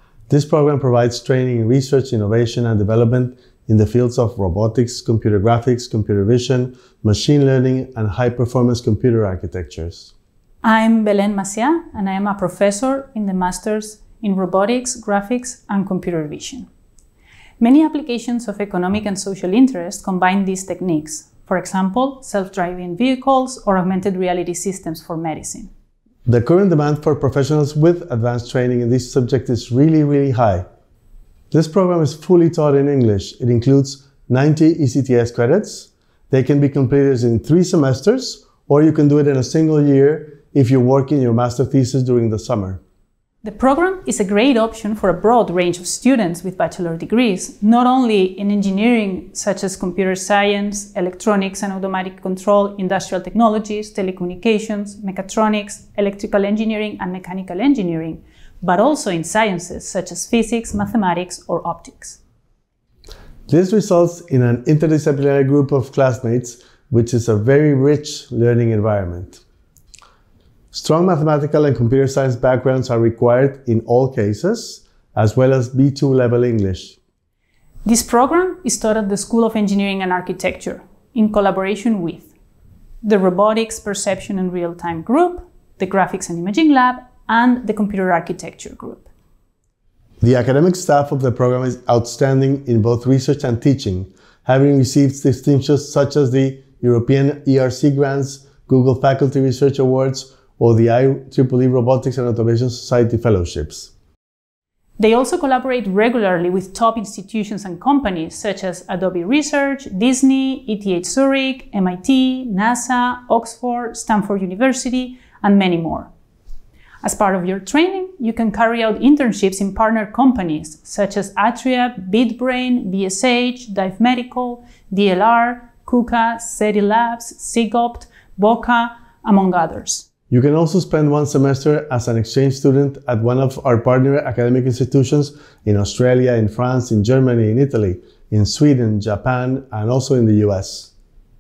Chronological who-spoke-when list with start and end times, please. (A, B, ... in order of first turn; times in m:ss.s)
0:00.3-0:10.1 A
0:10.6-0:16.7 B
0:17.6-0:25.7 B
0:26.2-0:30.6 A
0:31.5-0:42.8 A
0:43.4-1:02.2 B
1:03.5-1:09.4 A
1:10.7-1:17.0 A
1:17.8-1:22.3 B
1:23.0-1:29.1 B
1:30.2-1:43.9 A
1:45.0-1:56.1 B
1:57.0-2:10.0 B
2:10.3-2:20.9 A